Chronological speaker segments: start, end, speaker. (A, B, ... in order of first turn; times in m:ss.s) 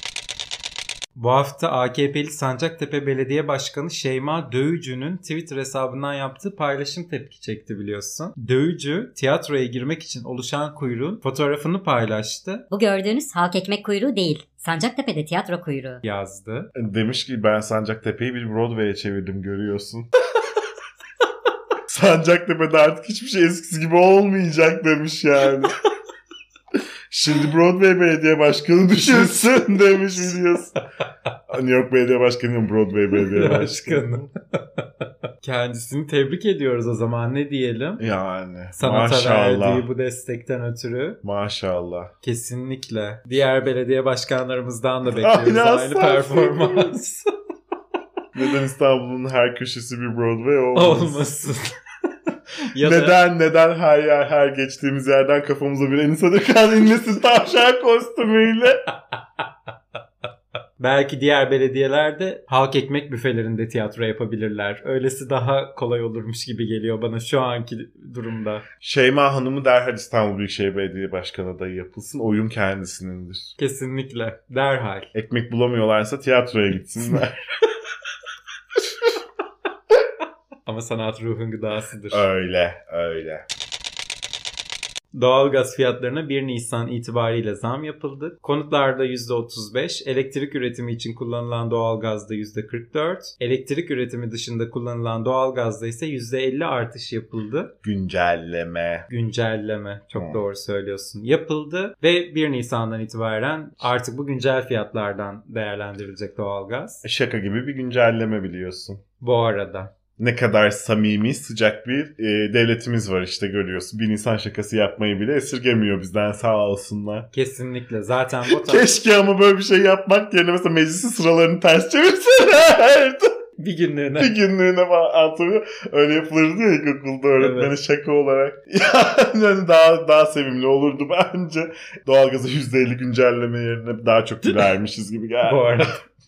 0:01.2-0:12.6 A
0:12.7-0:16.0 B
0:16.0-0:16.7 A
0:16.8-0:20.1 C
0:21.9-0:25.8 C
0:27.1-0:30.8 C
0:31.5-0:34.0 C
0:33.3-0:34.8 A
0:35.4-0:38.0 A
0:38.0-0:39.8 C
0:38.8-0:41.2 A
0:41.2-0:42.1 C
0:42.2-0:47.3 A
0:45.0-0:47.0 C
0:48.3-0:51.2 C
0:50.8-0:51.8 A
0:52.7-0:53.2 A
0:52.8-0:58.8 C
1:00.8-1:08.7 A
1:08.8-1:13.5 C
1:13.6-1:15.1 A
1:15.1-1:17.4 C
1:20.7-1:22.2 A
1:22.1-1:23.4 C
1:25.1-1:37.7 A
1:37.8-1:39.1 C
1:39.1-1:47.0 A
1:40.2-1:40.4 C
1:47.0-1:49.0 C
1:49.2-1:49.9 A
1:50.2-1:57.3 C
1:57.3-1:58.9 A
1:58.5-2:03.3 C
2:03.6-2:04.3 A
2:04.2-2:15.9 C
2:07.4-2:07.7 A
2:15.4-2:16.0 A